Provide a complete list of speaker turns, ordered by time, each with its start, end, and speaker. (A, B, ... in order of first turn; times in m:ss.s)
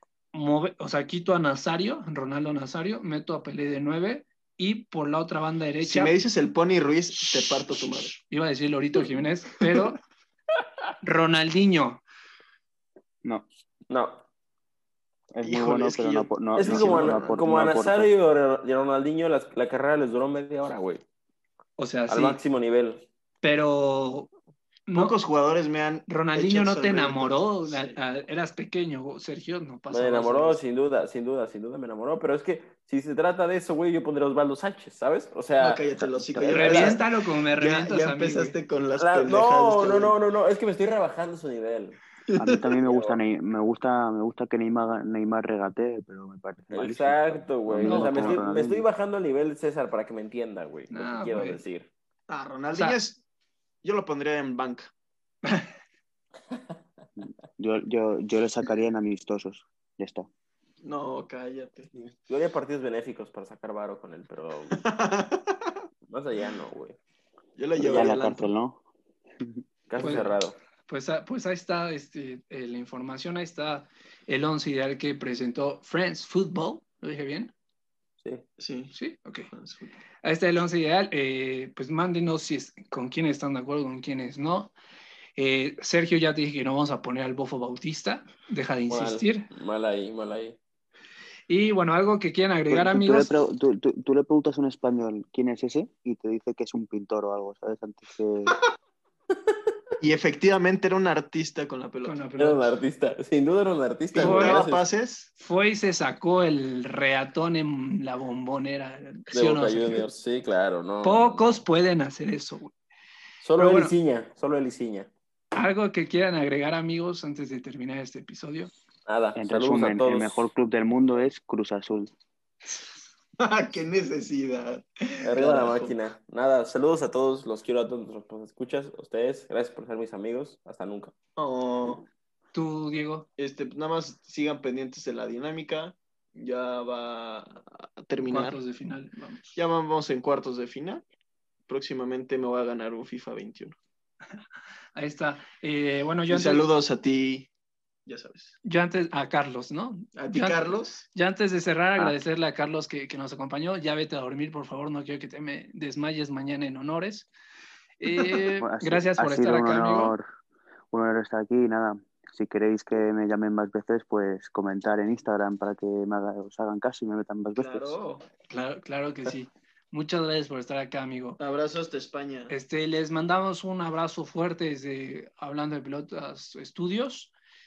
0:00.3-0:06.2 A
0:05.8-0:08.2 B
0:08.2-0:10.0 A
0:11.0-0:12.0 A
0:13.9-0:14.2 C
0:15.3-0:18.1 D
0:15.4-0:17.4 B
0:16.5-0:21.0 C
0:21.8-0:22.4 A
0:22.1-0:23.0 C
0:23.4-0:24.3 A
0:24.9-0:25.2 A
0:24.9-0:28.0 B
0:26.1-0:30.6 A
0:29.9-0:35.9 C
0:35.6-0:40.2 B
0:36.0-0:36.9 D
0:36.5-0:37.0 C
0:36.5-0:38.6 A
0:39.0-0:42.0 C
0:42.3-0:42.7 B
0:42.4-0:48.8 D
0:42.9-0:43.2 C
0:46.7-0:51.9 C
0:47.8-0:48.4 A
0:50.9-0:51.6 A
0:52.3-0:53.2 B
0:52.7-0:53.0 A
0:53.8-0:54.9 B
0:57.2-1:00.3 D
1:00.8-1:02.1 B
1:02.3-1:04.8 C
1:04.7-1:05.7 B
1:06.0-1:07.0 C
1:07.6-1:08.5 B
1:07.8-1:08.8 D
1:07.8-1:08.2 C
1:09.9-1:10.6 C
1:10.0-1:17.5 A
1:18.6-1:18.9 B
1:18.9-1:19.5 A
1:19.5-1:20.0 B
1:20.2-1:24.7 A
1:25.4-1:29.5 A
1:28.9-1:30.6 C
1:31.5-1:33.4 A
1:32.7-1:38.6 D
1:40.0-1:42.2 B
1:42.0-1:42.7 A
1:42.4-1:44.8 C
1:44.1-1:45.3 B
1:44.2-1:44.6 A
1:45.4-1:50.0 A
1:49.3-1:51.6 C
1:51.0-1:52.7 A
1:53.4-1:55.1 C
1:53.6-1:53.9 A
1:55.5-1:58.7 A
1:59.0-2:00.4 C
1:59.3-2:02.1 D
2:03.4-2:05.9 B
2:05.2-2:11.1 C
2:11.4-2:12.0 B
2:12.5-2:13.3 A
2:13.4-2:18.6 B
2:18.2-2:19.6 A
2:19.5-2:21.0 B
2:21.7-2:23.7 B
2:24.9-2:26.6 A
2:26.3-2:27.5 B
2:28.0-2:28.5 B
2:28.6-2:37.3 A
2:30.1-2:31.0 B
2:38.0-2:40.1 A
2:38.6-2:40.2 D
2:40.9-2:48.0 D
2:47.6-2:48.2 B
2:48.5-2:51.4 A
2:51.4-2:52.5 B
2:52.5-2:57.3 A